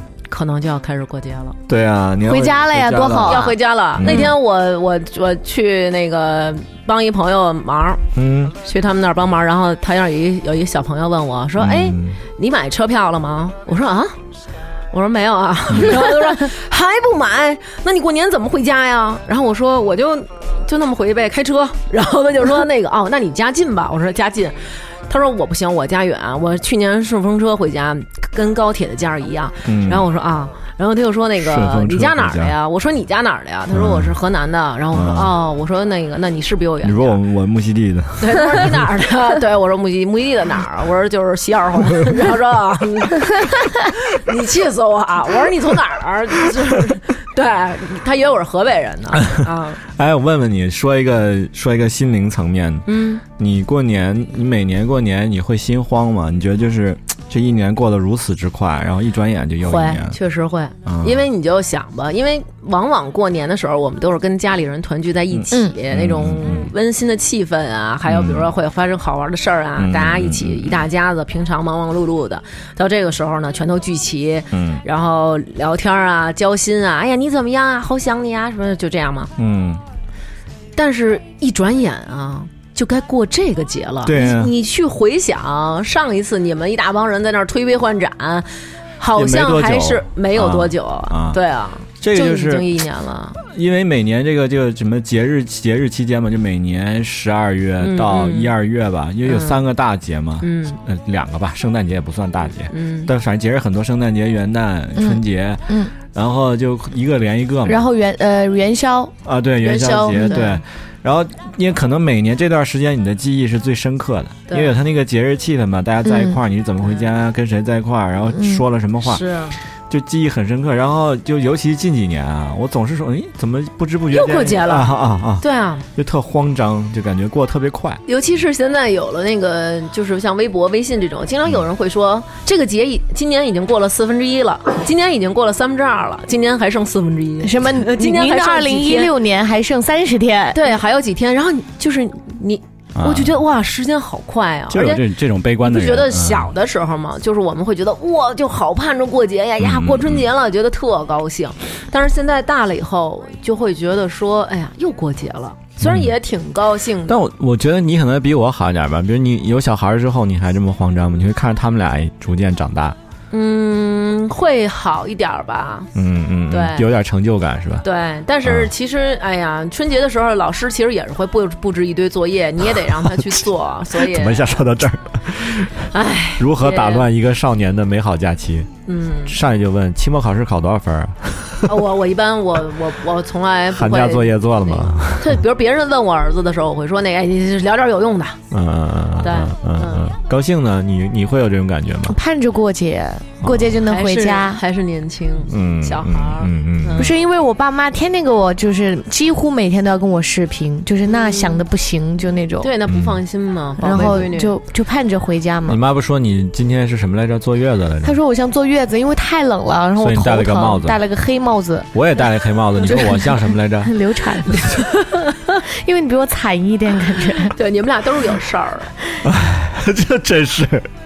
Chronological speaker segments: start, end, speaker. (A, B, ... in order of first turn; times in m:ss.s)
0:00.3-0:01.6 A
0:01.7-0:04.4 B
0:02.3-0:04.3 C
0:03.2-0:08.1 A
0:08.2-0:08.5 B
0:08.6-0:14.2 A
0:11.6-0:12.2 B
0:14.9-0:37.2 A
0:29.6-0:30.1 B
0:31.4-0:32.6 B
0:33.7-0:34.2 B
0:34.9-0:35.3 B
0:36.8-0:38.9 B
0:38.2-0:49.8 A
0:49.2-1:00.2 B
0:52.9-0:53.2 A
0:59.6-1:19.3 A
1:00.9-1:01.2 B
1:05.3-1:06.7 B
1:08.1-1:08.5 B
1:09.8-1:10.8 B
1:14.5-1:14.8 B
1:19.4-1:19.8 B
1:20.8-1:28.5 A
1:24.0-1:24.5 B
1:29.0-1:33.4 A
1:29.1-1:31.4 B
1:32.0-1:32.7 B
1:33.4-1:47.9 B
1:37.8-1:38.5 A
1:39.3-1:39.6 A
1:40.4-1:40.8 A
1:42.7-1:43.1 A
1:45.0-1:45.9 C
1:47.7-1:49.2 C
1:49.2-1:59.2 B
1:49.6-1:50.6 A
1:50.1-1:50.5 C
1:54.5-1:54.8 A
1:56.1-1:56.4 C
1:58.4-1:58.6 C
1:59.1-1:59.6 A
1:59.9-2:05.4 B
2:04.1-2:05.8 A
2:06.0-2:08.0 B
2:08.1-2:19.1 A
2:17.4-2:20.7 C
2:20.5-2:25.1 A
2:23.0-2:23.4 B
2:24.7-2:26.5 B
2:25.6-2:37.2 A
2:29.6-2:30.3 B
2:35.8-2:36.1 B
2:37.1-2:43.0 B
2:43.3-2:45.9 A
2:46.0-2:47.8 B
2:46.5-2:46.9 A
2:47.8-2:54.6 A
2:48.4-2:48.7 B
2:54.0-2:55.8 B
2:55.9-2:57.1 A
2:56.4-2:58.7 B
2:58.9-2:59.4 A
2:59.3-3:01.7 B
3:01.6-3:08.4 A
3:03.7-3:05.4 B
3:08.5-3:12.2 B
3:09.2-3:10.1 A
3:12.1-3:14.6 C
3:13.4-3:13.7 B
3:13.8-3:17.2 A
3:15.5-3:17.1 B
3:17.0-3:22.7 C
3:21.1-3:21.6 A
3:22.6-3:24.5 A
3:22.9-3:23.2 B
3:23.8-3:25.8 C
3:25.7-3:28.2 B
3:28.0-3:31.9 C
3:30.0-3:31.0 B
3:31.9-3:34.0 B
3:32.9-3:34.8 C
3:35.0-3:35.4 A
3:35.6-3:37.6 C
3:37.5-3:38.9 A
3:39.2-3:40.9 B